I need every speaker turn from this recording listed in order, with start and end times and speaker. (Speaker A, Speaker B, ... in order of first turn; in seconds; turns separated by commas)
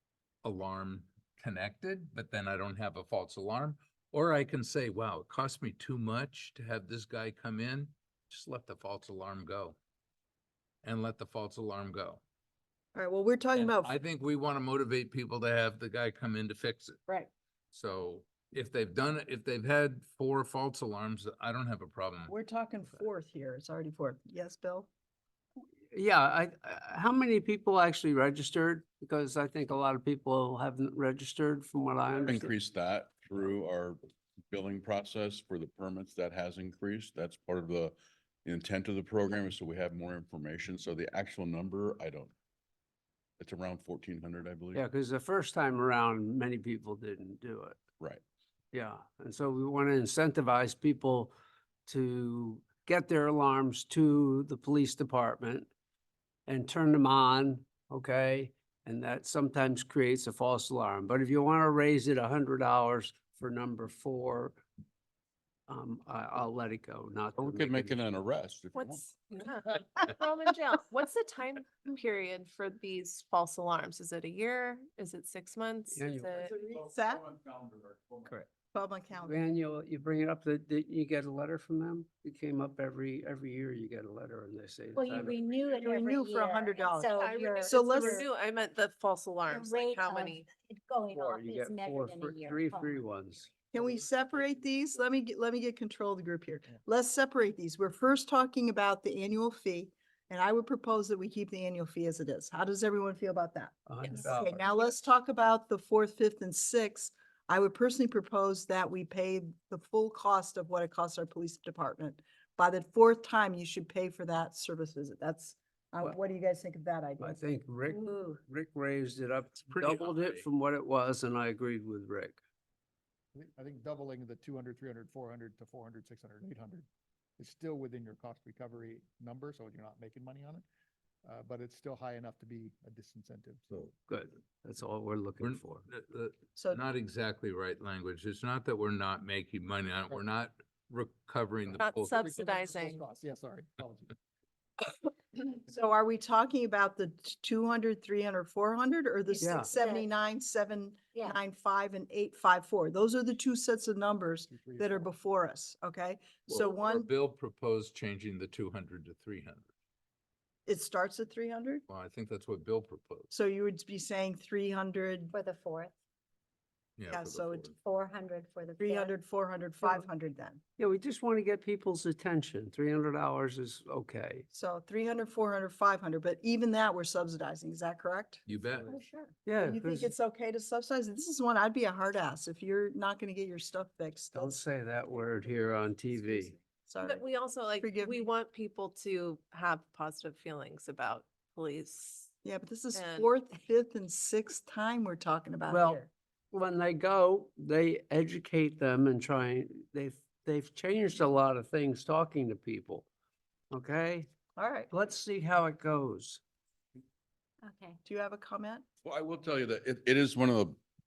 Speaker A: 0.4-9.8, Speaker A: 10.8-12.2, Speaker B: 12.9-14.0, Speaker A: 13.6-17.0, Speaker A: 17.7-22.3, Speaker B: 22.3-24.9, Speaker C: 25.9-32.5, Speaker D: 32.2-42.3, Speaker D: 43.4-44.8, Speaker C: 44.8-47.8, Speaker C: 48.7-51.3, Speaker C: 51.9-55.7, Speaker C: 56.5-64.6, Speaker C: 65.7-68.0, Speaker D: 67.4-69.0, Speaker E: 68.8-76.5, Speaker C: 75.9-76.4, Speaker B: 76.4-77.4, Speaker B: 78.2-79.5, Speaker C: 79.2-85.4, Speaker F: 85.0-88.3, Speaker B: 85.7-88.2, Speaker E: 87.2-90.5, Speaker F: 89.5-93.0, Speaker C: 91.1-93.5, Speaker B: 93.7-117.4, Speaker C: 103.9-104.6, Speaker E: 104.0-104.3, Speaker C: 117.2-122.4, Speaker F: 117.9-118.4, Speaker A: 119.6-120.5, Speaker G: 123.3-126.9, Speaker G: 127.4-130.7, Speaker G: 131.2-133.7, Speaker C: 133.8-135.9, Speaker A: 135.4-142.2, Speaker B: 136.6-136.8, Speaker G: 141.7-144.2, Speaker E: 141.7-143.0, Speaker B: 145.5-157.1, Speaker F: 149.3-150.1, Speaker C: 149.4-149.7, Speaker F: 151.1-151.4, Speaker G: 154.5-155.1, Speaker A: 156.5-159.7, Speaker B: 160.7-161.8, Speaker A: 161.9-163.3, Speaker B: 163.3-165.3, Speaker F: 165.3-165.9, Speaker A: 167.0-167.7, Speaker B: 167.1-167.7, Speaker F: 167.7-169.2, Speaker B: 168.8-170.6, Speaker C: 170.8-174.4, Speaker B: 174.5-184.6, Speaker A: 178.5-178.9, Speaker C: 179.4-180.1, Speaker C: 184.3-186.6, Speaker B: 186.8-187.2, Speaker E: 187.0-192.3, Speaker B: 187.8-188.3, Speaker B: 192.4-196.1, Speaker E: 192.9-193.3, Speaker C: 195.7-196.0, Speaker C: 196.5-203.1, Speaker C: 203.7-204.3, Speaker B: 204.6-204.9, Speaker C: 204.9-206.4, Speaker F: 207.6-208.0, Speaker B: 208.1-208.8, Speaker D: 209.0-210.8